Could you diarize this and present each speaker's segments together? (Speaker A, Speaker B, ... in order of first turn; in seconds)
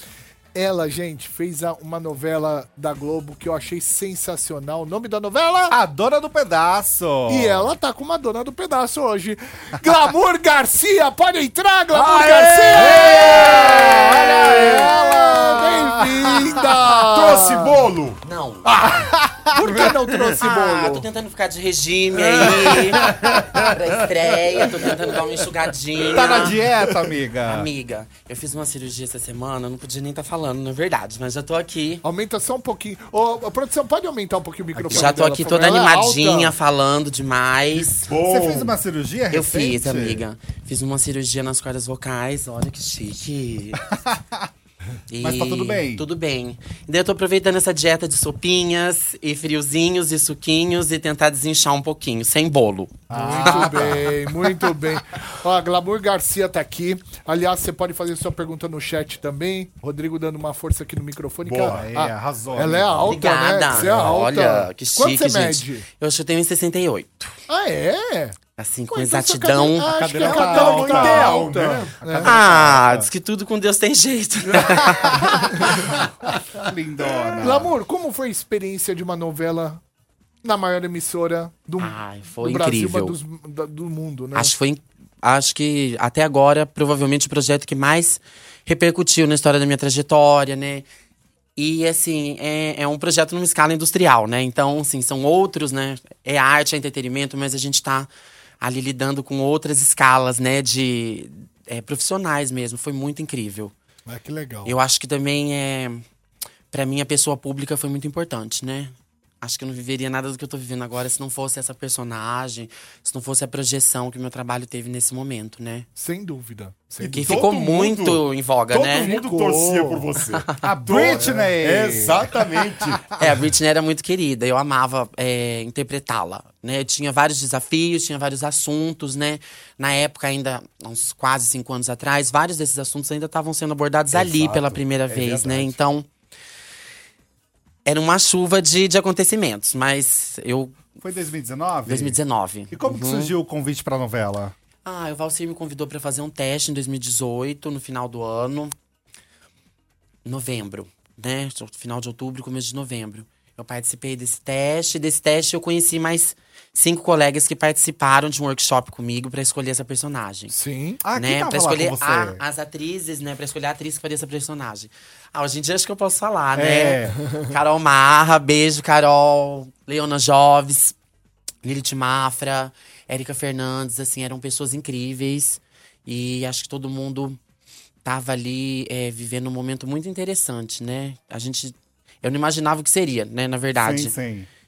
Speaker A: 0.5-5.8, 7.3-17.8, 19.5-21.1, 32.0-36.6, 53.1-65.8, 67.5-68.4, 68.9-72.3, 75.2-75.7, 77.4-79.8, 80.4-84.5, 104.1-104.8, 116.0-117.4, 118.9-120.1, 160.5-161.0
Speaker B: 5.7-7.7, 12.7-16.6, 18.9-19.6, 23.0-23.4, 26.0-27.7, 38.2-40.2, 43.9-44.5, 45.2-46.0, 53.1-54.8, 61.7-63.3, 69.9-73.1, 74.7-77.8, 120.6-123.3, 134.1-135.8, 141.0-144.6, 161.0-162.4, 166.5-167.2, 183.8-184.5
Speaker C: 11.9-15.0, 16.4-20.3, 22.1-25.2, 37.7-38.8, 61.4-61.9, 63.7-64.2, 70.2-72.1, 117.0-123.1, 134.1-135.7
Speaker D: 18.2-18.8, 20.4-26.6, 27.4-32.0, 34.8-38.1, 39.3-43.9, 45.1-53.7, 63.1-67.3, 68.6-70.0, 72.2-75.6, 81.8-83.2, 84.3-90.9, 91.6-98.1, 98.6-103.7, 104.7-106.0, 106.7-115.9, 117.1-119.1, 123.2-136.1, 137.9-140.8, 141.8-143.3, 144.8-148.7, 150.2-160.5, 161.1-170.9, 171.6-177.4, 178.0-184.2